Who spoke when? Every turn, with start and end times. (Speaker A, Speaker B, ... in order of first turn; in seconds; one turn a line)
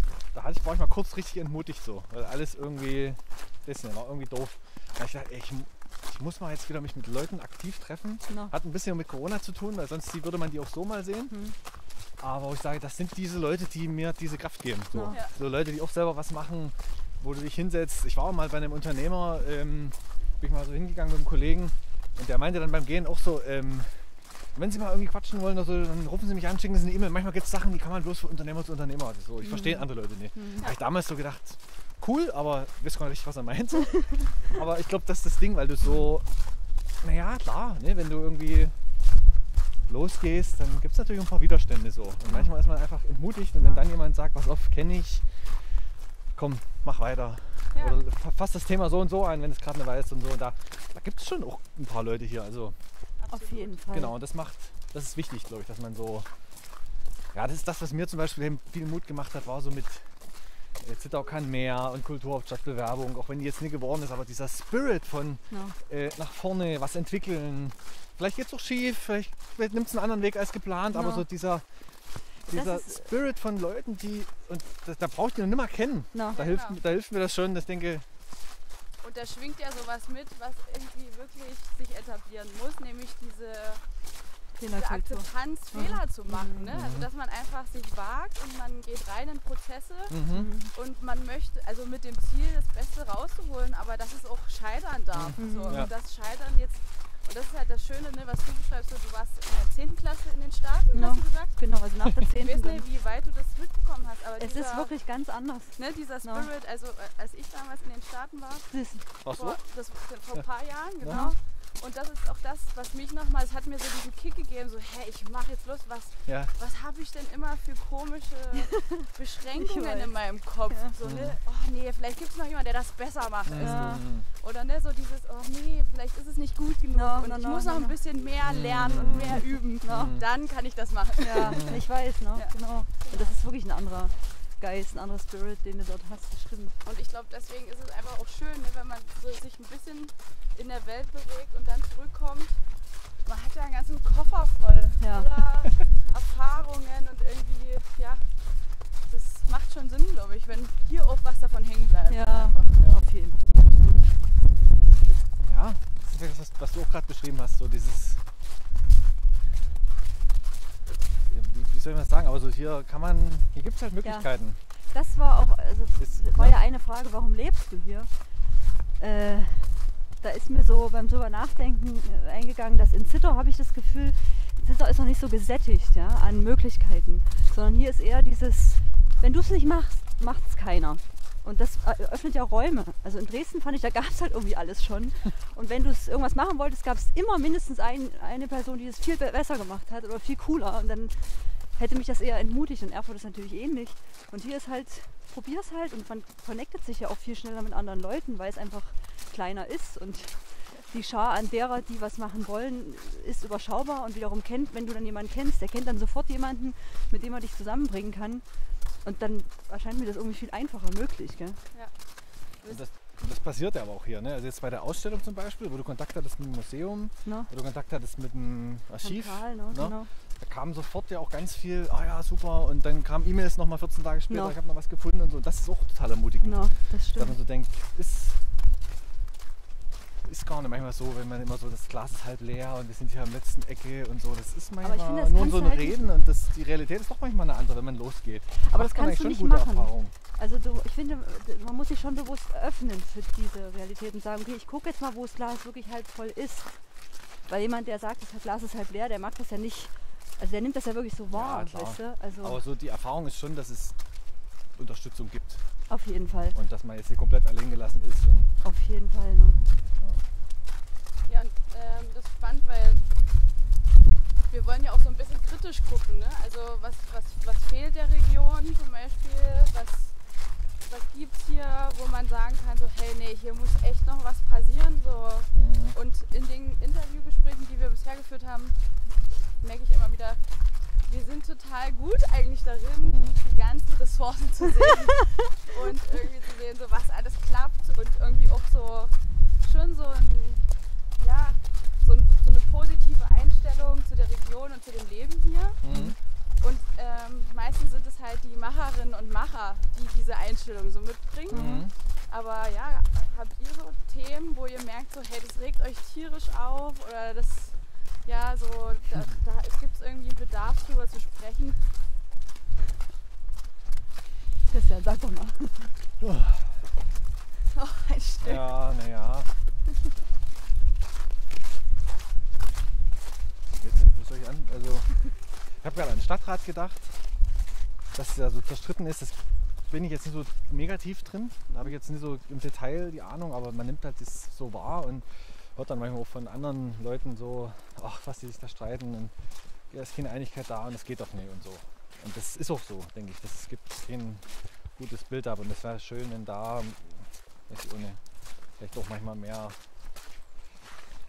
Speaker A: 0.3-11.4
Speaker B: 8.3-8.5
Speaker B: 11.3-11.6
Speaker A: 12.2-36.3
Speaker B: 14.9-15.2
Speaker B: 29.4-30.7
Speaker A: 37.0-38.8
Speaker A: 39.9-45.5
Speaker A: 46.4-52.8
Speaker C: 53.2-53.9
Speaker B: 53.3-54.1
Speaker A: 53.9-56.3
Speaker A: 57.3-60.2
Speaker A: 60.8-71.7
Speaker B: 65.5-65.8
Speaker B: 70.9-71.3
Speaker A: 72.5-78.1
Speaker B: 72.5-73.1
Speaker B: 76.1-76.4
Speaker C: 76.3-76.8
Speaker C: 79.0-83.8
Speaker B: 84.6-86.8
Speaker C: 84.7-101.6
Speaker A: 86.7-87.1
Speaker A: 90.1-90.5
Speaker B: 90.3-90.7
Speaker A: 95.1-95.9
Speaker B: 95.4-95.9
Speaker B: 100.9-102.8
Speaker C: 102.4-104.9
Speaker B: 104.4-106.5
Speaker C: 105.8-108.7
Speaker B: 108.7-109.1
Speaker A: 109.2-109.6
Speaker C: 109.3-131.8
Speaker A: 111.0-111.3
Speaker B: 111.0-111.4
Speaker A: 116.3-116.5
Speaker B: 118.6-120.2
Speaker A: 121.0-121.4
Speaker A: 123.5-124.3
Speaker B: 123.5-124.0
Speaker B: 126.9-128.0
Speaker A: 128.4-130.2
Speaker B: 129.8-130.2
Speaker B: 131.2-136.9
Speaker A: 131.4-131.7
Speaker C: 132.3-133.4
Speaker C: 136.8-142.6
Speaker C: 143.2-148.4
Speaker B: 145.0-145.7
Speaker C: 149.0-152.8
Speaker B: 152.1-153.6
Speaker A: 155.1-158.2
Speaker A: 161.1-164.6
Speaker B: 164.0-164.3
Speaker B: 164.9-168.1
Speaker A: 166.0-166.6
Speaker B: 168.9-208.5
Speaker B: 209.0-211.6
Speaker A: 212.7-228.4
Speaker B: 217.2-217.5
Speaker B: 219.0-220.1
Speaker B: 224.3-224.6
Speaker B: 226.4-227.4
Speaker A: 230.2-240.1
Speaker B: 234.8-236.1
Speaker B: 238.6-246.8
Speaker B: 247.5-252.6
Speaker A: 251.3-254.0
Speaker A: 254.8-255.6
Speaker B: 255.9-256.6
Speaker A: 256.6-258.6
Speaker B: 258.6-259.7
Speaker A: 260.0-260.2
Speaker C: 261.3-263.0
Speaker C: 264.5-270.2
Speaker C: 270.8-278.8
Speaker A: 275.5-276.0
Speaker C: 279.6-280.4
Speaker C: 281.1-290.6
Speaker A: 283.0-283.4
Speaker C: 291.2-295.8
Speaker A: 295.8-296.2
Speaker B: 295.9-296.2
Speaker C: 296.6-311.8
Speaker B: 301.5-301.9
Speaker A: 301.5-301.9
Speaker B: 314.7-315.9
Speaker A: 316.2-316.8
Speaker C: 317.7-318.7
Speaker A: 318.4-319.5
Speaker A: 323.7-325.2
Speaker A: 325.8-327.2
Speaker A: 328.1-339.3
Speaker A: 339.9-348.2
Speaker A: 348.8-349.8